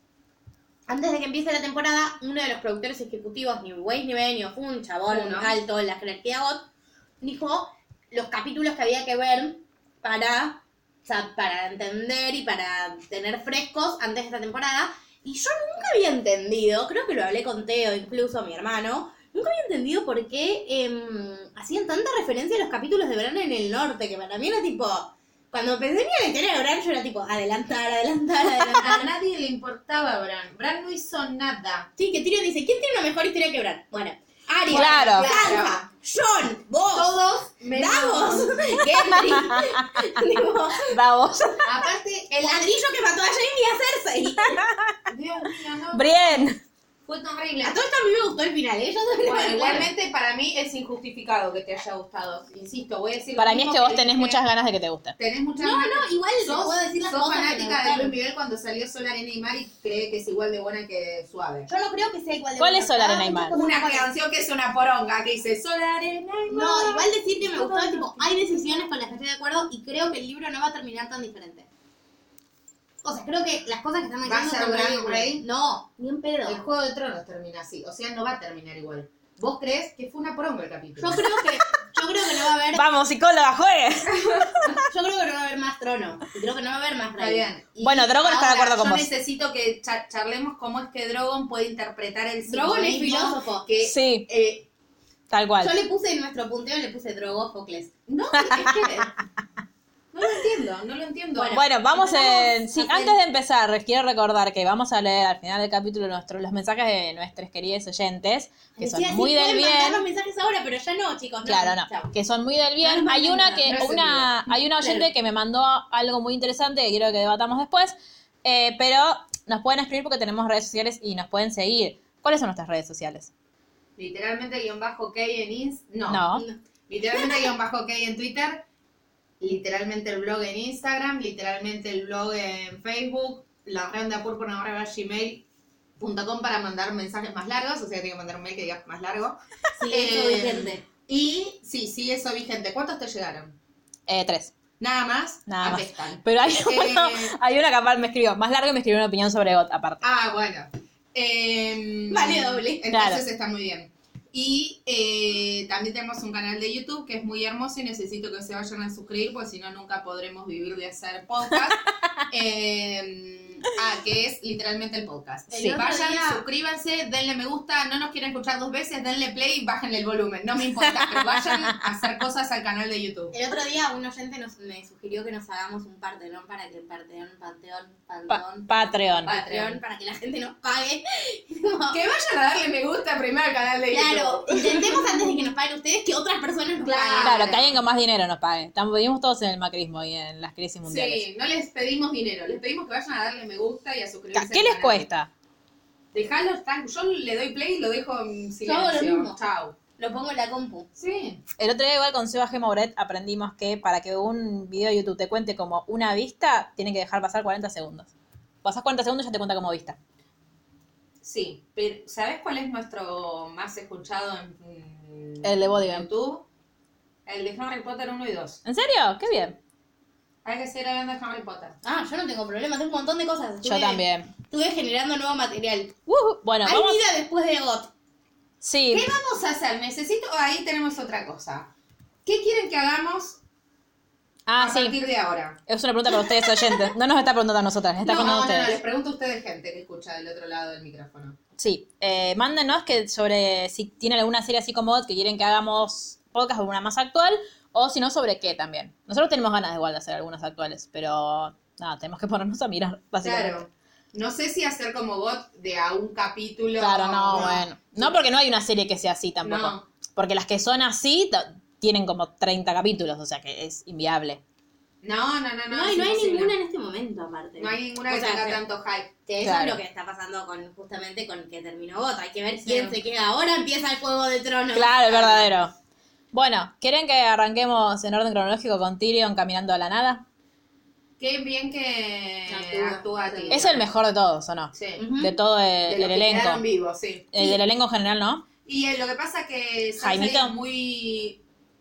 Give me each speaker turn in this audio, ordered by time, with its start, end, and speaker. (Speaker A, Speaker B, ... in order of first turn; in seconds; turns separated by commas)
Speaker A: 0.9-6.7, Speaker B: 5.1-5.5, Speaker A: 7.2-29.1, Speaker B: 28.8-31.9, Speaker A: 32.0-37.1, Speaker B: 34.6-35.9, Speaker C: 34.7-35.3, Speaker B: 36.9-39.4, Speaker A: 37.7-41.0, Speaker C: 40.9-41.5, Speaker B: 41.6-42.9, Speaker A: 42.3-44.6, Speaker C: 44.4-45.0, Speaker B: 45.1-46.5, Speaker C: 45.9-46.6, Speaker B: 47.0-47.8, Speaker A: 47.6-49.9, Speaker B: 49.2-54.4, Speaker C: 53.4-55.1, Speaker B: 55.2-61.7, Speaker A: 55.6-58.1, Speaker A: 61.7-64.1, Speaker C: 62.6-63.5, Speaker B: 63.5-68.8, Speaker A: 66.5-71.7, Speaker A: 73.0-76.6, Speaker B: 74.2-75.4, Speaker B: 76.5-81.3, Speaker A: 81.0-82.8, Speaker C: 82.7-84.8, Speaker B: 84.1-84.8, Speaker A: 84.9-87.5, Speaker B: 87.2-94.7, Speaker C: 87.8-89.1, Speaker A: 92.5-93.7, Speaker C: 93.8-94.3, Speaker C: 95.3-95.8, Speaker A: 95.6-97.9, Speaker B: 98.1-99.1, Speaker C: 98.4-98.8, Speaker B: 100.1-101.6, Speaker A: 101.3-103.2, Speaker C: 101.5-110.0, Speaker A: 108.8-112.2, Speaker C: 111.4-123.3, Speaker A: 112.8-115.1, Speaker B: 113.7-114.3, Speaker B: 124.0-126.3, Speaker C: 126.1-126.5, Speaker B: 126.9-128.6, Speaker B: 129.4-135.4, Speaker B: 136.0-139.4, Speaker A: 139.8-140.8, Speaker B: 139.9-143.5, Speaker C: 144.1-144.5, Speaker B: 144.8-147.3, Speaker C: 145.5-150.0, Speaker B: 150.0-173.3, Speaker A: 152.1-152.8, Speaker C: 152.9-153.2, Speaker A: 165.5-166.4, Speaker C: 165.5-165.8, Speaker C: 170.8-171.7, Speaker A: 173.3-182.0, Speaker C: 178.3-179.3, Speaker B: 179.2-179.8, Speaker B: 181.9-185.3, Speaker A: 183.9-187.4, Speaker B: 186.8-187.8, Speaker C: 187.2-191.2, Speaker B: 190.8-195.1, Speaker C: 194.3-195.3, Speaker B: 196.1-199.8, Speaker A: 198.6-199.3, Speaker A: 200.0-200.9, Speaker B: 200.9-201.4, Speaker C: 201.6-208.1, Speaker C: 208.6-210.0, Speaker B: 211.2-216.4, Speaker C: 215.4-216.1, Speaker B: 217.2-218.6, Speaker C: 218.6-219.6, Speaker B: 220.4-221.8, Speaker A: 221.8-225.9, Speaker C: 223.6-224.3, Speaker C: 226.1-227.0, Speaker A: 226.6-227.9, Speaker C: 228.6-229.1, Speaker B: 228.9-231.7, Speaker B: 232.2-233.4, Speaker C: 234.5-234.9, Speaker B: 234.6-235.6, Speaker C: 235.7-238.8, Speaker B: 238.0-241.4, Speaker C: 241.6-253.6, Speaker B: 253.2-258.2, Speaker C: 256.8-264.4, Speaker B: 259.4-259.8, Speaker B: 265.0-266.5, Speaker A: 265.7-268.6, Speaker B: 267.6-269.1, Speaker A: 269.3-275.5, Speaker C: 269.4-269.8, Speaker B: 272.6-273.0, Speaker C: 274.7-275.7, Speaker C: 276.3-280.2, Speaker B: 281.2-283.8, Speaker A: 282.5-283.7, Speaker C: 283.5-286.6, Speaker B: 284.7-285.0, Speaker A: 285.0-285.3, Speaker B: 285.9-287.4, Speaker C: 287.3-288.4, Speaker B: 288.6-291.4, Speaker C: 290.0-290.5